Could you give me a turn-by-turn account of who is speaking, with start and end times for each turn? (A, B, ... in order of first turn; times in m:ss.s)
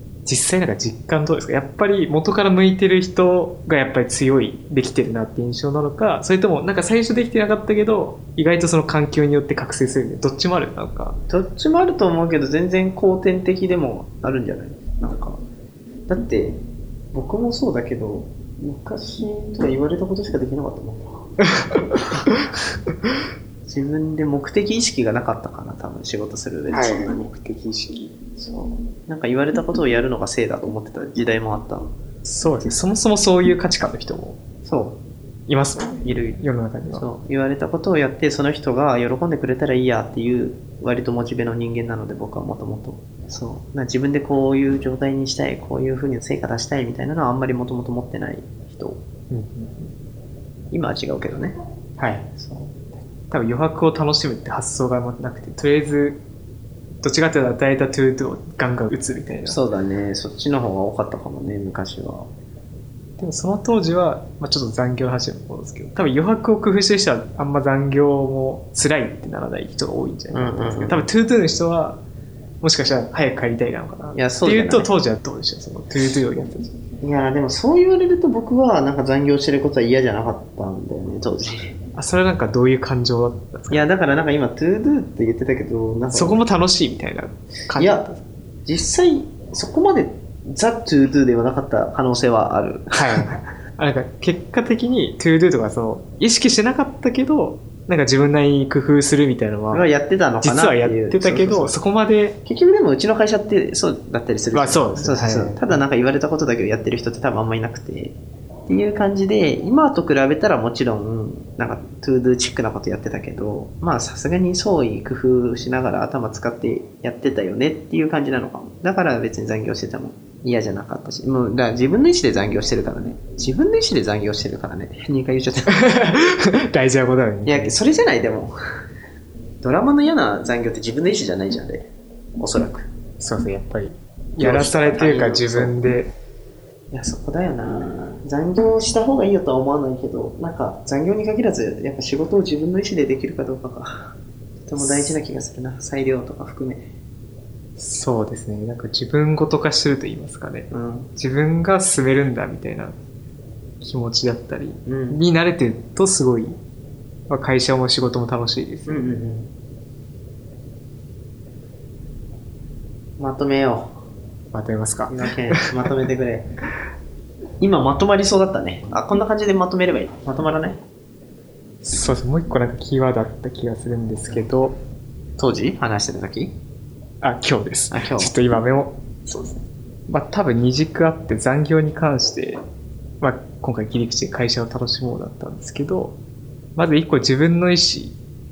0:00.2-0:11.2 A
0:11.3-0:15.4 B
0:16.1-0:16.6 B
0:17.1-0:21.3 B
0:21.6-0:22.3 A
0:23.6-0:27.3 B
0:26.7-0:28.1 A
0:28.4-0:31.9 B
0:32.2-0:34.4 A
0:34.6-0:35.0 B
0:35.5-0:37.1 A
0:36.0-0:36.4 B
0:36.9-0:49.0 B
0:49.3-0:49.9 A
0:50.7-0:51.6 B
0:52.0-0:52.3 A
0:52.4-0:52.9 B
0:53.3-0:56.2 A
0:57.0-0:59.6 A
0:59.5-1:02.3 B
1:03.2-1:12.0 A
1:10.3-1:11.1 B
1:12.6-1:16.7 A
1:14.1-1:14.9 B
1:17.0-1:21.8 B
1:22.0-1:23.9 A
1:23.7-1:26.4 B
1:26.1-1:28.2 A
1:27.8-1:28.0 B
1:28.7-1:33.3 B
1:32.9-1:39.9 A
1:39.7-1:41.8 B
1:40.4-1:42.4 A
1:42.4-1:48.2 B
1:44.5-1:45.8 A
1:48.7-2:05.8 B
2:05.7-2:07.8 A
2:07.5-2:08.6 B
2:09.6-2:12.9 B
2:13.2-2:16.1 A
2:14.4-2:15.8 B
2:16.9-2:24.2 B
2:24.7-2:26.9 B
2:24.8-2:25.2 A
2:27.8-2:33.0 A
2:30.7-2:31.1 B
2:33.8-2:36.6 A
2:34.9-2:35.2 B
2:37.3-2:39.1 A
2:38.9-2:39.5 B
2:43.2-2:44.0 B
2:44.5-2:45.7 A
2:45.1-2:46.5 B
2:47.6-2:50.8 B
2:51.8-2:54.8 A
2:55.4-2:56.5 B
2:57.2-3:02.6 A
2:57.9-2:58.3 B
3:03.2-3:06.2 A
3:06.8-3:08.2 A